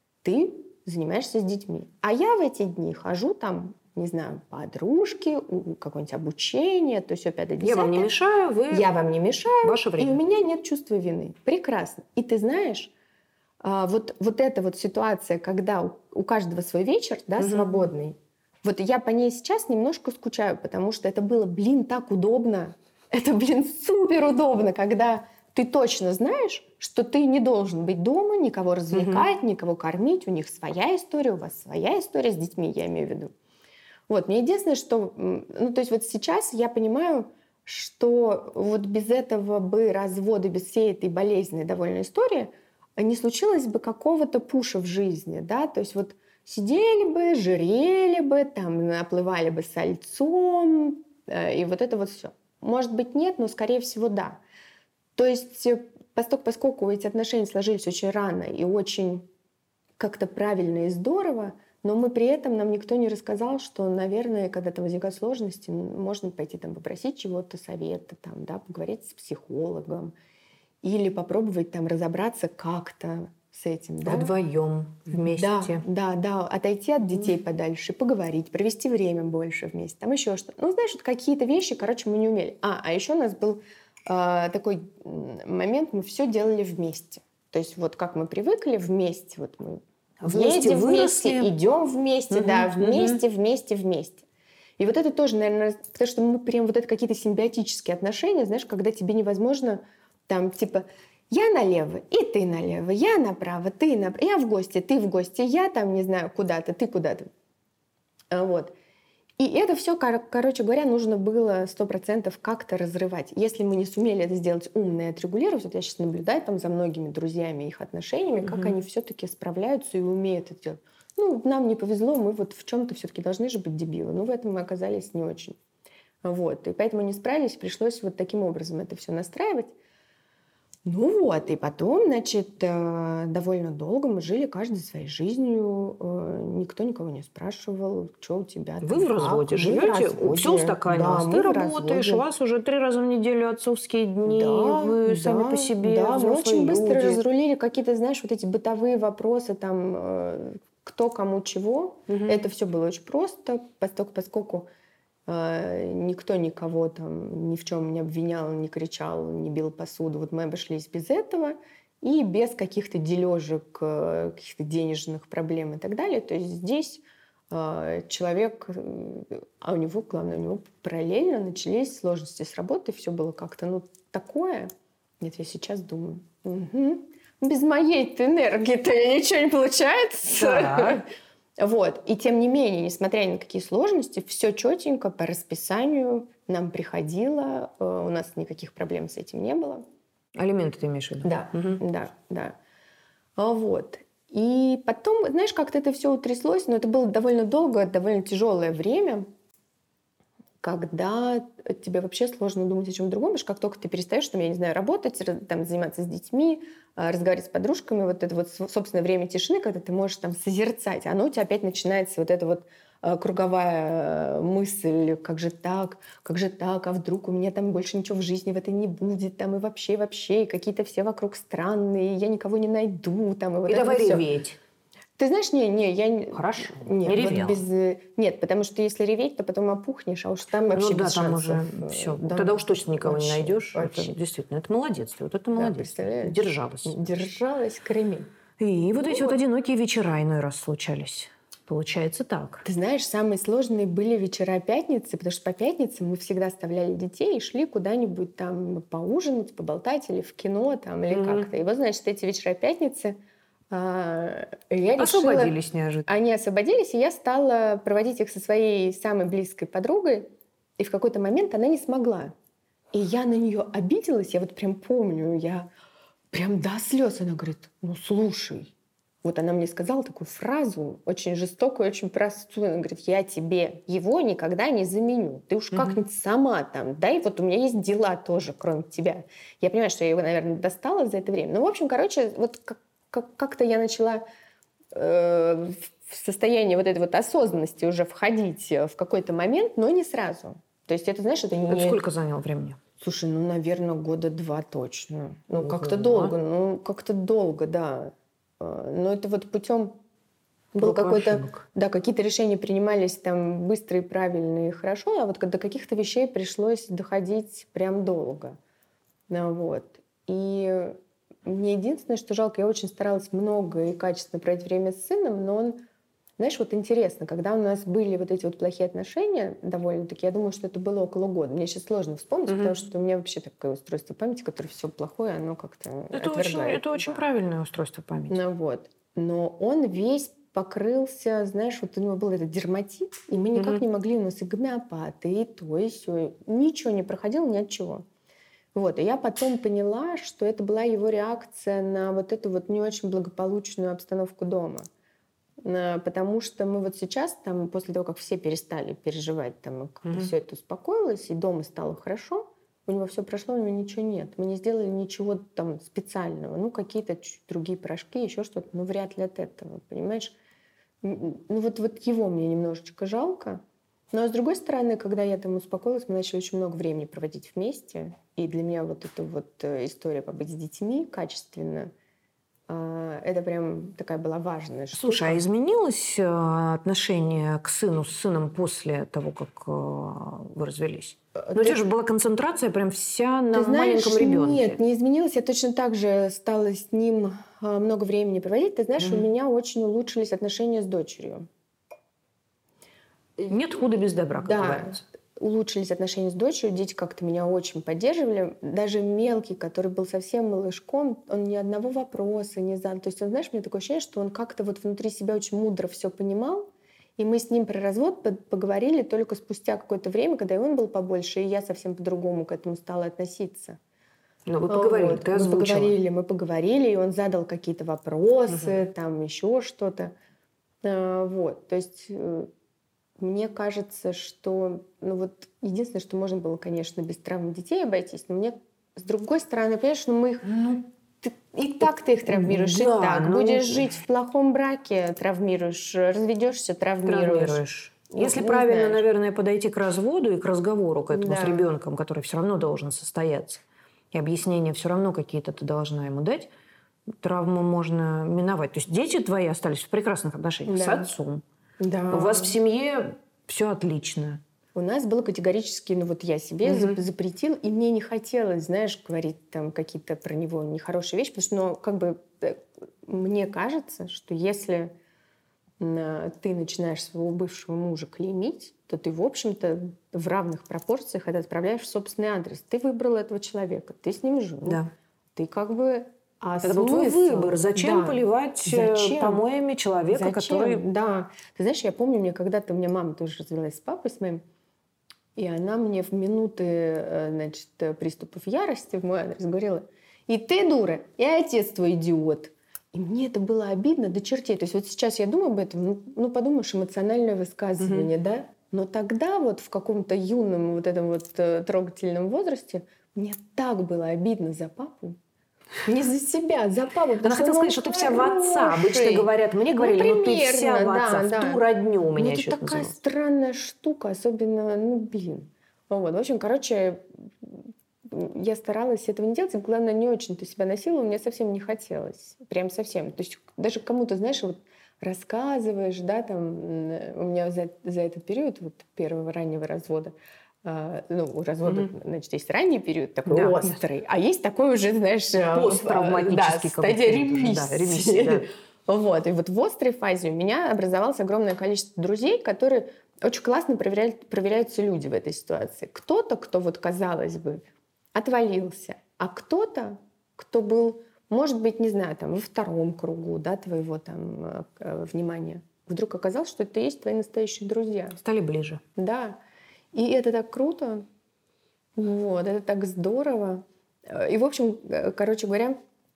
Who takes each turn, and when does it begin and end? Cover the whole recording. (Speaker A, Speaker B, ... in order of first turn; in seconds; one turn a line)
Speaker A: 0.2-8.1
Speaker B: 7.6-8.9
Speaker A: 8.7-12.9
Speaker B: 9.6-10.2
Speaker A: 13.6-33.3
Speaker B: 17.4-17.9
Speaker B: 28.9-29.3
Speaker A: 34.1-54.4
Speaker A: 55.2-59.3
Speaker A: 60.0-70.1
Speaker A: 70.8-74.3
Speaker B: 74.0-75.8
Speaker A: 75.1-94.2
Speaker B: 90.2-91.5
Speaker B: 92.3-93.2
Speaker A: 94.8-107.3
Speaker A: 108.3-108.7
Speaker A: 109.4-125.6
Speaker B: 118.4-118.7
Speaker A: 126.2-129.7
Speaker A: 130.8-142.2
Speaker B: 138.8-147.2
Speaker A: 144.2-154.7
Speaker B: 152.1-152.4
Speaker A: 155.3-181.1
Speaker B: 180.3-181.0
Speaker A: 181.6-189.8
Speaker B: 190.4-191.8
Speaker A: 191.2-192.6
Speaker A: 193.4-199.3
Speaker A: 200.6-224.3
Speaker B: 223.7-224.6
Speaker A: 225.2-234.2
Speaker B: 226.3-227.6
Speaker B: 230.7-237.0
Speaker A: 235.6-238.3
Speaker B: 238.6-242.7
Speaker A: 239.1-239.4
Speaker A: 242.6-253.2
Speaker B: 251.1-251.5
Speaker A: 253.7-262.3
Speaker B: 255.0-256.1
Speaker A: 262.9-265.7
Speaker A: 266.3-268.7
Speaker A: 269.2-284.2
Speaker B: 275.7-276.0
Speaker A: 284.9-292.0
Speaker B: 291.7-292.8
Speaker A: 293.0-300.0
Speaker B: 295.5-296.4
Speaker A: 300.7-308.6
Speaker B: 300.8-301.6
Speaker A: 309.3-315.8
Speaker A: 316.4-327.2
Speaker B: 322.5-322.8
Speaker B: 326.1-328.4
Speaker A: 328.3-338.1
Speaker B: 333.6-333.8
Speaker A: 338.7-344.9
Speaker A: 345.6-360.4
Speaker B: 350.1-350.3
Speaker A: 361.0-371.9
Speaker A: 372.7-375.4
Speaker B: 374.9-384.8
Speaker A: 381.4-381.8
Speaker A: 383.5-391.5
Speaker B: 389.0-389.3
Speaker B: 393.4-395.0
Speaker A: 394.4-413.8
Speaker B: 414.5-416.0
Speaker A: 414.7-420.1
Speaker B: 418.5-418.8
Speaker A: 420.8-422.5
Speaker A: 423.2-439.0
Speaker B: 432.3-434.0
Speaker B: 437.1-446.5
Speaker A: 441.1-441.7
Speaker B: 447.1-451.4
Speaker A: 450.7-451.1
Speaker A: 451.8-452.5
Speaker B: 452.1-454.4
Speaker A: 454.8-464.9
Speaker B: 456.6-457.0
Speaker A: 465.8-474.8
Speaker B: 474.6-474.9
Speaker A: 475.4-479.4
Speaker B: 476.6-480.8
Speaker A: 480.1-484.4
Speaker A: 485.4-505.2
Speaker B: 497.8-498.1
Speaker A: 505.8-511.6
Speaker B: 507.2-513.0
Speaker A: 512.1-558.2
Speaker B: 531.7-531.9
Speaker B: 533.3-533.8
Speaker B: 535.3-538.5
Speaker B: 558.2-558.8
Speaker A: 559.0-559.4
Speaker A: 559.9-561.0
Speaker A: 562.0-565.8